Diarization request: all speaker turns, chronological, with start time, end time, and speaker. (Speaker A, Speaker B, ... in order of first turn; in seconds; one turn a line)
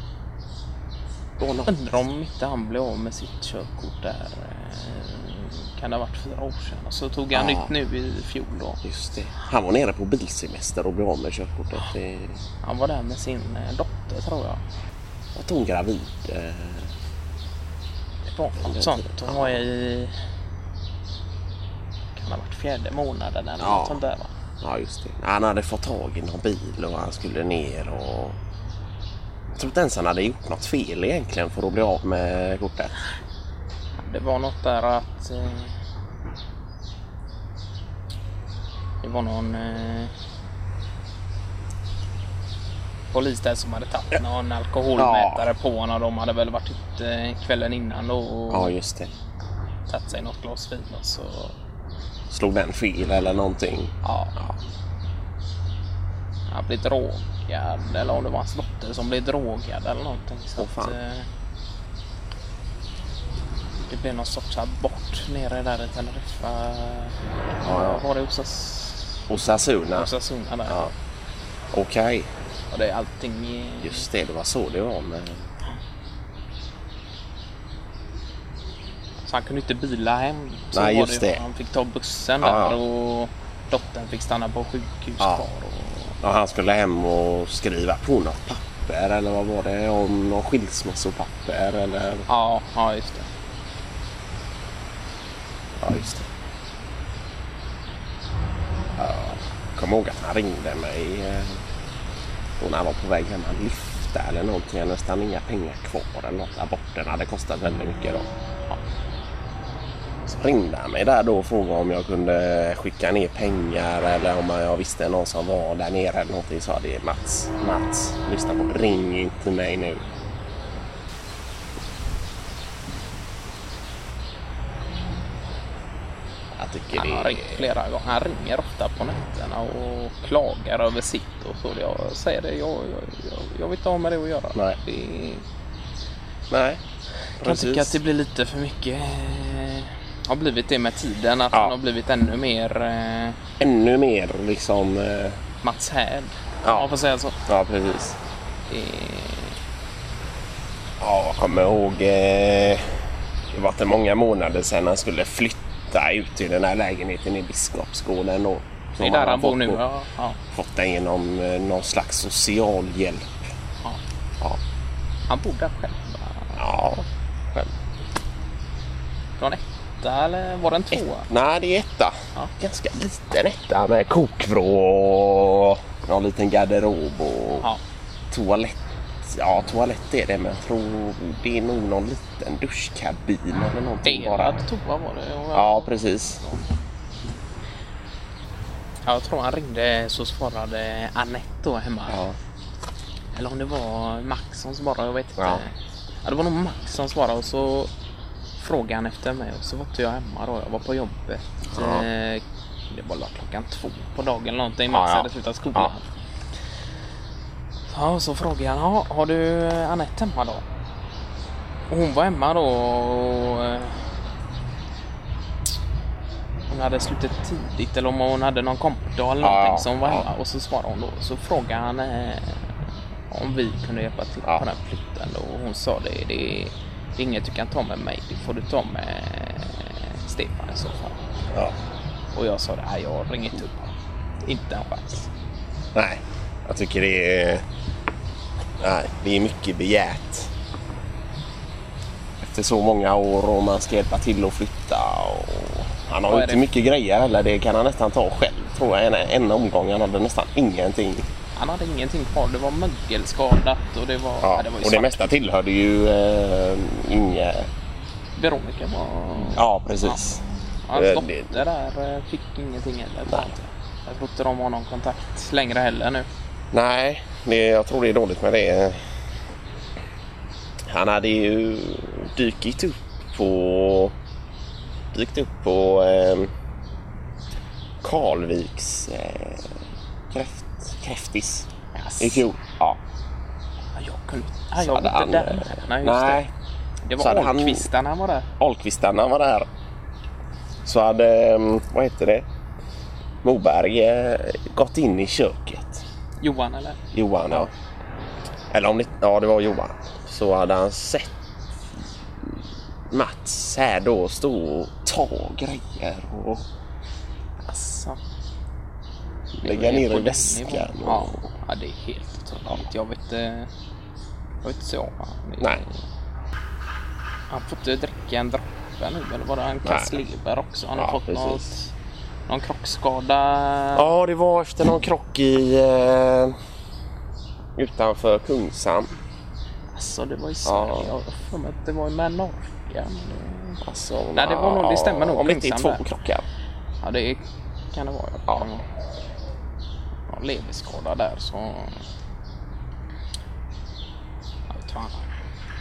Speaker A: 1.4-1.9
Speaker B: 1.6-8.8
Speaker A: 7.3-7.7
Speaker A: 8.8-12.4
Speaker B: 12.6-14.6
Speaker A: 15.3-16.9
Speaker B: 18.3-20.1
Speaker A: 18.6-19.7
Speaker B: 22.1-24.3
Speaker A: 23.6-24.0
Speaker A: 24.6-28.4
Speaker A: 29.5-33.0
Speaker B: 34.0-35.7
Speaker B: 39.0-40.1
Speaker B: 43.1-48.7
Speaker A: 45.0-45.5
Speaker A: 48.5-49.1
Speaker B: 49.9-51.5
Speaker A: 52.3-54.5
Speaker B: 54.0-54.4
Speaker B: 56.5-61.2
Speaker A: 60.6-61.0
Speaker B: 63.9-69.3
Speaker A: 67.6-68.0
Speaker A: 69.3-70.1
Speaker B: 69.9-70.9
Speaker A: 70.7-70.9
Speaker A: 71.7-72.3
Speaker B: 72.7-74.1
Speaker A: 73.8-75.5
Speaker B: 79.2-86.2
Speaker A: 80.7-81.4
Speaker A: 82.4-82.8
Speaker A: 85.2-85.5
Speaker A: 86.2-92.3
Speaker B: 92.3-93.3
Speaker A: 95.8-96.3
Speaker A: 99.0-101.6
Speaker A: 102.6-108.3
Speaker A: 110.2-120.0
Speaker A: 126.5-127.7
Speaker B: 127.0-135.4
Speaker A: 136.5-136.8
Speaker A: 137.4-138.0
Speaker B: 137.4-143.4
Speaker A: 143.6-145.4
Speaker B: 145.6-147.4
Speaker A: 146.6-146.9
Speaker A: 147.4-148.2
Speaker B: 148.7-149.6
Speaker A: 151.0-152.8
Speaker A: 153.5-159.8
Speaker B: 159.0-160.4
Speaker A: 160.5-163.3
Speaker B: 165.3-166.6
Speaker A: 166.6-167.7
Speaker B: 169.4-171.3
Speaker A: 170.9-177.7
Speaker A: 178.3-184.6
Speaker B: 184.0-186.7
Speaker A: 185.5-186.4
Speaker B: 189.1-192.2
Speaker A: 192.1-192.4
Speaker B: 193.3-195.7
Speaker A: 195.4-195.6
Speaker B: 196.2-197.9
Speaker B: 198.6-206.1
Speaker A: 201.7-202.1
Speaker A: 204.9-205.9
Speaker B: 207.9-210.6
Speaker B: 211.9-214.0
Speaker B: 216.7-222.8
Speaker A: 219.4-220.3
Speaker B: 223.3-231.2
Speaker B: 232.3-235.3
Speaker A: 235.9-237.6
Speaker A: 238.8-240.5
Speaker A: 242.4-251.3
Speaker B: 246.2-246.7
Speaker B: 251.5-255.3
Speaker A: 254.4-257.7
Speaker B: 258.4-260.2
Speaker A: 259.5-260.4
Speaker B: 260.9-266.3
Speaker A: 260.9-261.6
Speaker A: 263.3-263.5
Speaker A: 266.7-269.0
Speaker A: 270.9-274.1
Speaker A: 275.1-276.5
Speaker A: 278.0-281.7
Speaker B: 281.9-282.4
Speaker A: 282.2-283.0
Speaker B: 283.9-286.4
Speaker A: 284.8-286.5
Speaker B: 287.1-288.5
Speaker A: 287.2-287.9
Speaker A: 288.6-289.7
Speaker A: 290.8-292.4
Speaker A: 293.4-296.0
Speaker B: 296.4-297.0
Speaker A: 297.1-297.7
Speaker A: 298.7-301.3
Speaker A: 303.1-306.7
Speaker B: 307.6-308.2
Speaker B: 309.6-313.7
Speaker A: 309.6-311.4
Speaker B: 314.6-316.0
Speaker B: 317.5-321.9
Speaker A: 319.8-320.2
Speaker A: 320.9-321.7
Speaker B: 322.5-324.1
Speaker A: 323.9-326.5
Speaker A: 327.8-329.2
Speaker B: 329.9-333.8
Speaker A: 330.6-331.1
Speaker A: 333.8-336.4
Speaker B: 334.3-336.0
Speaker B: 337.0-338.9
Speaker B: 340.3-342.0
Speaker B: 344.7-345.3